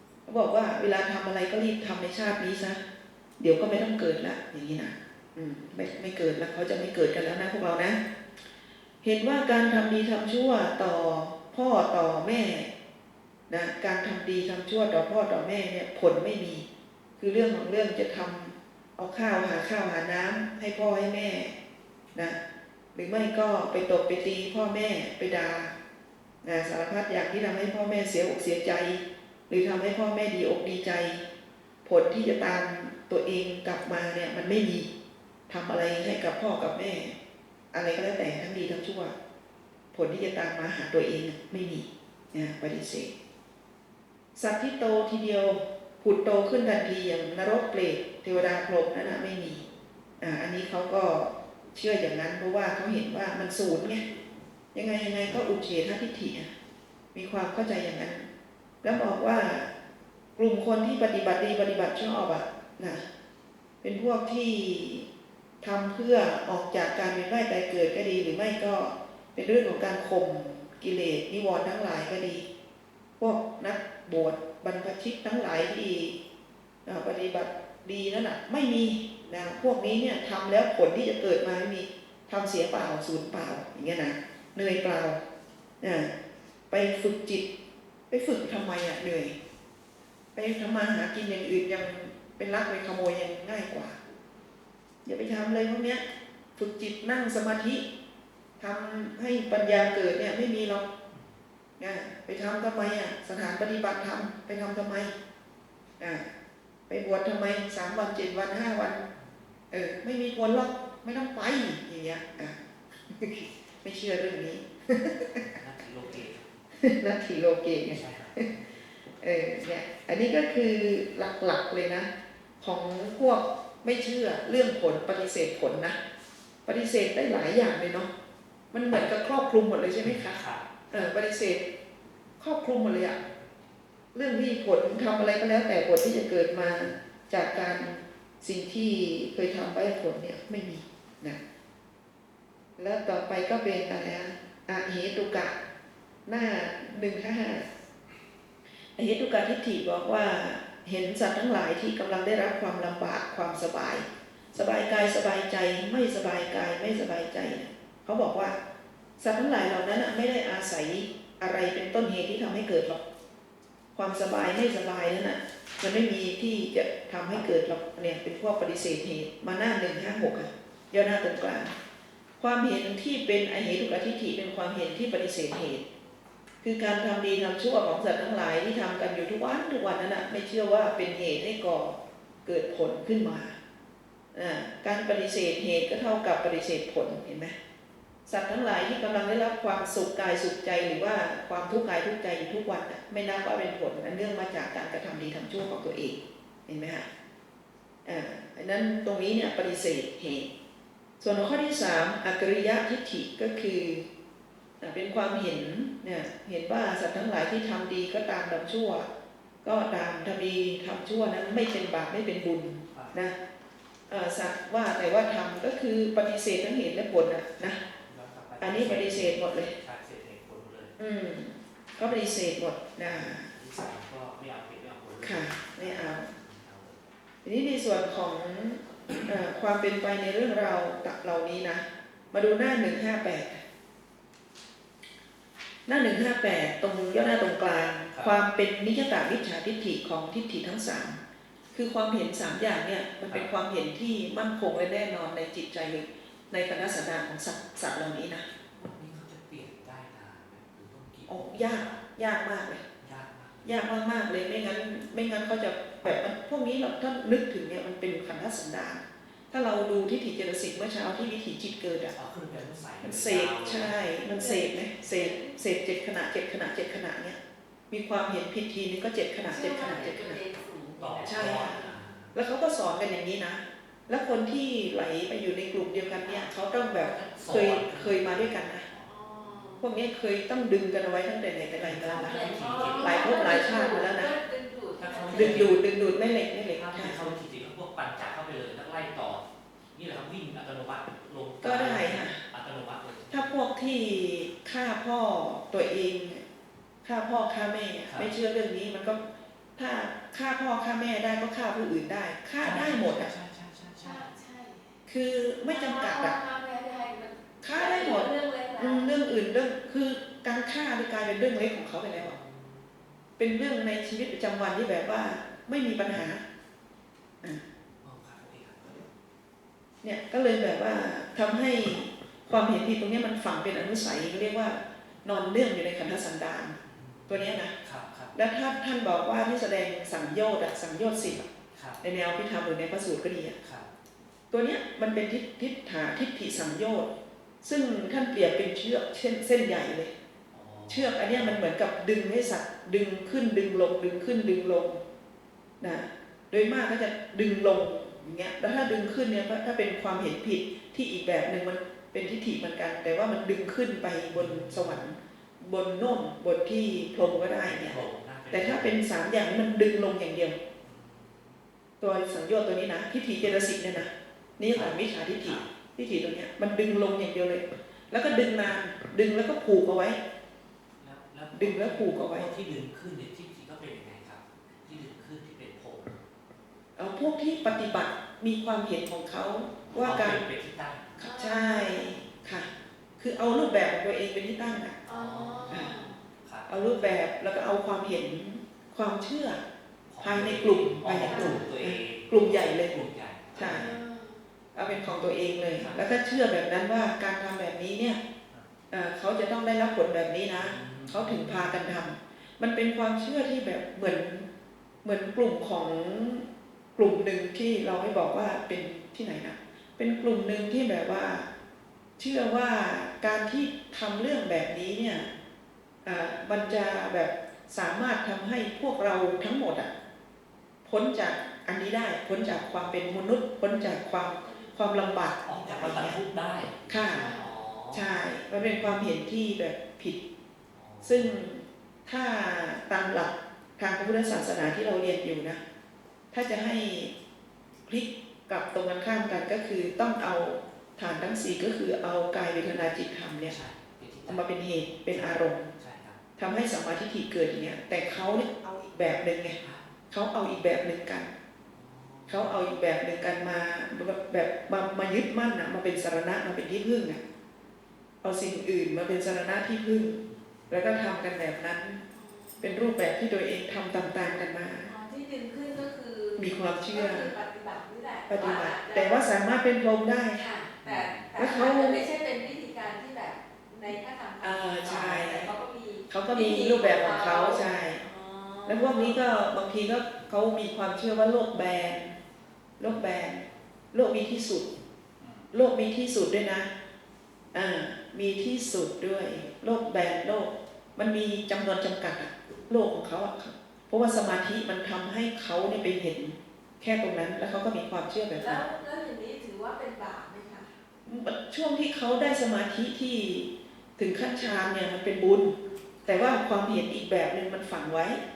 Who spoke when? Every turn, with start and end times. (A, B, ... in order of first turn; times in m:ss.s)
0:00.3-0:02.8 A
0:03.4-0:08.0 A
0:09.0-0:12.7 A
0:13.5-0:16.6 A
0:17.2-0:21.5 A
0:22.9-0:25.7 A
0:26.4-0:31.2 A
0:31.8-0:34.9 A
0:35.5-0:37.1 A
0:37.7-0:39.1 A
0:39.9-0:43.1 A
0:44.4-0:49.6 A
0:50.2-0:54.0 A
0:54.7-0:56.5 A
0:57.1-0:58.3 A
0:58.8-0:59.7 A
1:00.4-1:03.0 A
1:03.8-1:05.0 A
1:05.6-1:12.4 A
1:13.2-1:16.2 A
1:16.8-1:25.2 A
1:25.8-1:26.1 A
1:26.7-1:27.4 A
1:28.1-1:29.3 A
1:30.3-1:34.0 A
1:35.0-1:36.0 A
1:36.6-1:37.8 A
1:38.6-1:40.8 A
1:41.8-1:45.1 A
1:46.9-1:49.0 A
1:49.2-1:49.5 B
1:49.7-1:55.4 A
1:55.3-1:56.5 B
1:56.8-1:58.5 A
1:57.9-1:58.8 B
1:59.2-2:02.1 A
2:02.6-2:06.0 A
2:06.6-2:08.1 A
2:08.7-2:10.4 A
2:10.0-2:10.7 B
2:10.9-2:11.6 A
2:12.4-2:13.2 A
2:14.1-2:21.4 A
2:22.8-2:25.6 A
2:26.2-2:27.6 A
2:29.0-2:38.6 A
2:39.2-2:43.0 A
2:43.9-2:51.7 A
2:52.4-2:55.8 A
2:56.6-3:03.5 A
3:04.3-3:07.5 A
3:08.3-3:17.0 A
3:18.0-3:20.5 A
3:21.2-3:24.0 A
3:24.8-3:29.1 A
3:29.6-3:33.3 A
3:34.1-3:37.8 A
3:37.6-3:40.9 B
3:38.6-3:39.7 A
3:41.0-3:43.5 A
3:43.0-3:47.0 B
3:45.2-3:46.3 A
3:47.4-3:53.6 A
3:55.9-4:01.2 A
4:01.7-4:08.4 A
4:08.7-4:12.0 B
4:11.3-4:12.8 A
4:13.0-4:13.8 B
4:13.6-4:22.1 A
4:22.1-4:24.0 B
4:23.0-4:27.4 A
4:24.2-4:25.6 C
4:27.9-4:30.4 A
4:29.4-4:31.9 C
4:31.0-4:32.3 B
4:31.2-4:31.8 A
4:32.3-4:38.8 A
4:36.2-4:36.5 C
4:36.9-4:39.1 B
4:39.0-4:39.9 C
4:39.8-4:44.3 A
4:41.8-4:43.6 B
4:42.1-4:45.7 C
4:45.0-4:45.7 B
4:45.3-4:47.3 A
4:46.7-4:53.5 B
4:51.6-4:52.4 A
4:53.3-4:56.4 A
4:57.0-4:59.2 A
4:59.8-5:03.3 A
5:02.6-5:04.3 B
5:04.0-5:04.9 C
5:05.1-5:06.4 A
5:05.6-5:09.1 C
5:07.6-5:12.3 A
5:12.2-5:13.0 B
5:13.4-5:16.4 A
5:18.0-5:19.1 B
5:20.0-5:27.7 A
5:26.8-5:28.3 B
5:28.3-5:31.4 A
5:31.7-5:32.0 B
5:32.0-5:33.6 A
5:33.6-5:33.9 B
5:34.5-5:37.1 A
5:37.6-5:40.1 A
5:40.5-5:41.6 B
5:40.9-5:45.0 A
5:45.8-5:58.0 A
5:54.3-5:55.0 B
5:57.2-5:59.0 B
5:58.5-6:00.6 A
6:00.8-6:01.6 B
6:02.0-6:10.2 A
6:04.7-6:05.7 B
6:11.0-6:16.2 B
6:11.5-6:12.5 A
6:17.0-6:20.4 A
6:20.0-6:21.1 B
6:21.2-6:22.1 C
6:21.2-6:22.7 A
6:23.2-6:25.0 A
6:25.0-6:26.2 C
6:25.0-6:27.2 B
6:26.7-6:29.6 A
6:30.1-6:34.0 B
6:30.2-6:32.9 A
6:31.2-6:31.7 C
6:33.5-6:33.9 A
6:33.6-6:34.4 C
6:34.7-6:38.2 A
6:34.8-6:35.1 B
6:35.7-6:36.0 B
6:38.9-6:44.5 A
6:40.6-6:41.8 B
6:45.0-6:51.5 A
6:52.2-6:55.3 A
6:56.0-6:59.9 A
7:00.8-7:06.2 A
7:05.4-7:09.0 B
7:06.9-7:07.3 A
7:07.1-7:07.5 C
7:07.9-7:10.2 A
7:10.7-7:11.4 B
7:11.0-7:15.6 A
7:16.3-7:17.1 A
7:17.9-7:23.6 A
7:23.4-7:26.2 B
7:24.3-7:25.7 A
7:26.4-7:29.6 A
7:29.6-7:29.8 B
7:30.1-7:31.3 A
7:31.7-7:32.6 B
7:32.3-7:37.2 A
7:38.2-7:42.0 A
7:42.1-7:42.9 C
7:42.6-7:44.9 A
7:44.8-7:49.4 C
7:46.4-7:47.3 A
7:48.3-7:50.4 A
7:50.3-7:59.2 C
7:50.8-7:51.3 B
7:51.4-7:52.0 A
7:54.4-7:55.5 A
7:56.1-7:58.0 A
7:58.6-8:02.2 A
8:02.8-8:04.7 A
8:05.2-8:05.4 B
8:05.5-8:06.7 A
8:07.5-8:18.6 A
8:18.3-8:20.7 C
8:21.0-8:28.2 A
8:26.0-8:26.4 C